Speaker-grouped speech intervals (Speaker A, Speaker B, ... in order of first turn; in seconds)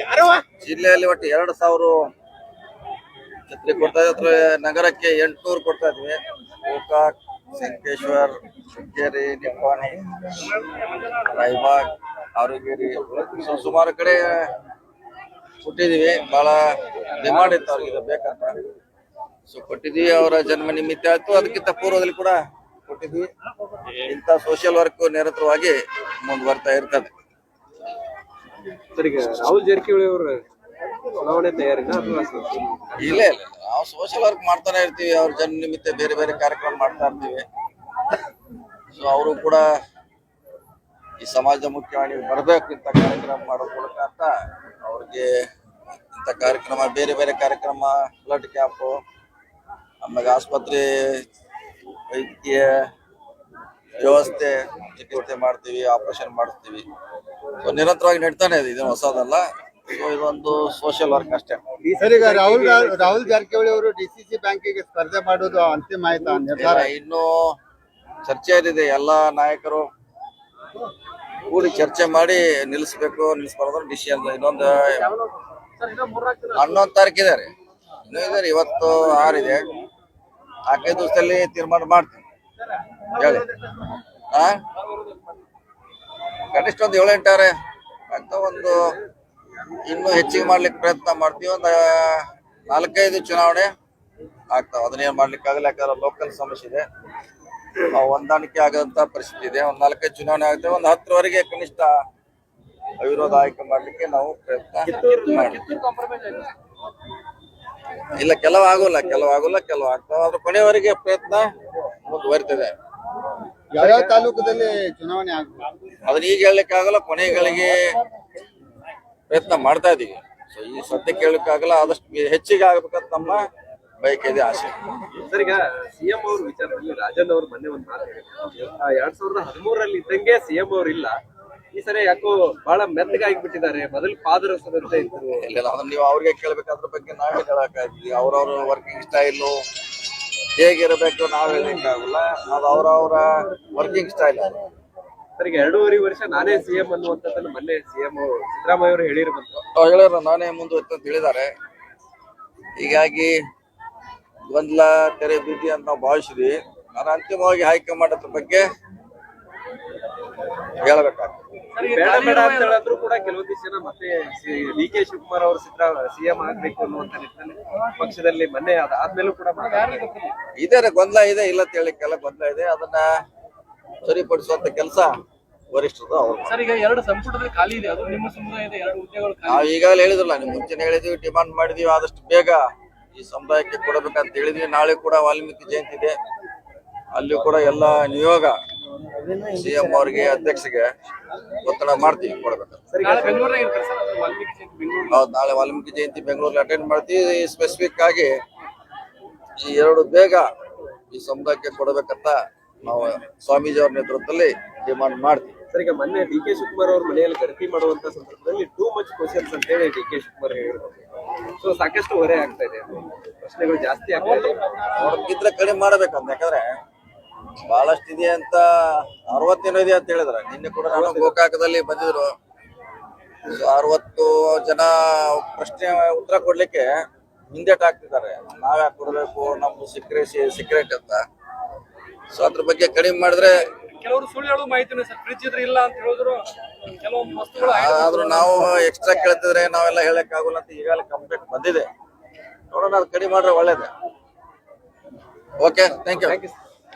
Speaker A: 0.5-2.0, 3.5-10.1, 11.2-11.8, 12.3-14.5, 15.6-18.6, 19.5-23.3, 24.0-27.1, 33.0-37.5, 38.9-39.6, 41.2-44.3, 44.8-45.3, 46.1-49.0, 50.0-51.2, 52.1-52.9, 54.0-56.9, 57.6-61.6, 66.5-67.6, 68.2-69.9, 71.5-75.0, 76.5-77.5, 78.1-79.6, 80.7-82.2, 83.1-83.5, 84.3-84.6, 86.5-87.5, 88.1-88.9, 89.8-93.7, 94.5-96.8, 97.9-101.9, 103.0-105.6, 108.1-111.5, 112.0-112.7, 116.0-117.8, 119.3-123.4, 124.0-124.8, 135.4-139.6, 140.6-144.6, 149.7-151.5, 152.8-153.3, 154.5-158.6, 160.8-161.4, 170.6-173.1, 174.0-175.1, 175.7-176.6, 179.4-182.6, 183.1-186.2, 187.1-188.5, 189.4-190.9, 191.6-192.9, 195.1-198.3, 199.6-200.5, 201.1-205.5, 214.9-216.7, 217.7-222.3, 223.5-226.9, 227.5-231.2, 232.3-233.6, 237.6-241.9, 242.7-243.9, 245.6-246.4
Speaker B: 28.9-30.4, 31.1-33.3, 61.8-63.4, 104.8-105.8, 113.8-114.2, 125.3-131.2, 131.7-135.5, 145.4-149.6, 161.8-170.1, 192.9-193.4, 205.7-211.0, 211.6-214.7, 220.9-221.4, 246.2-246.5
Speaker C: 62.0-66.9, 113.7-115.7
Speaker D: 74.9-76.7, 104.9-106.5, 161.7-162.8, 169.7-170.3, 176.4-179.7, 193.0-195.2, 234.0-238.8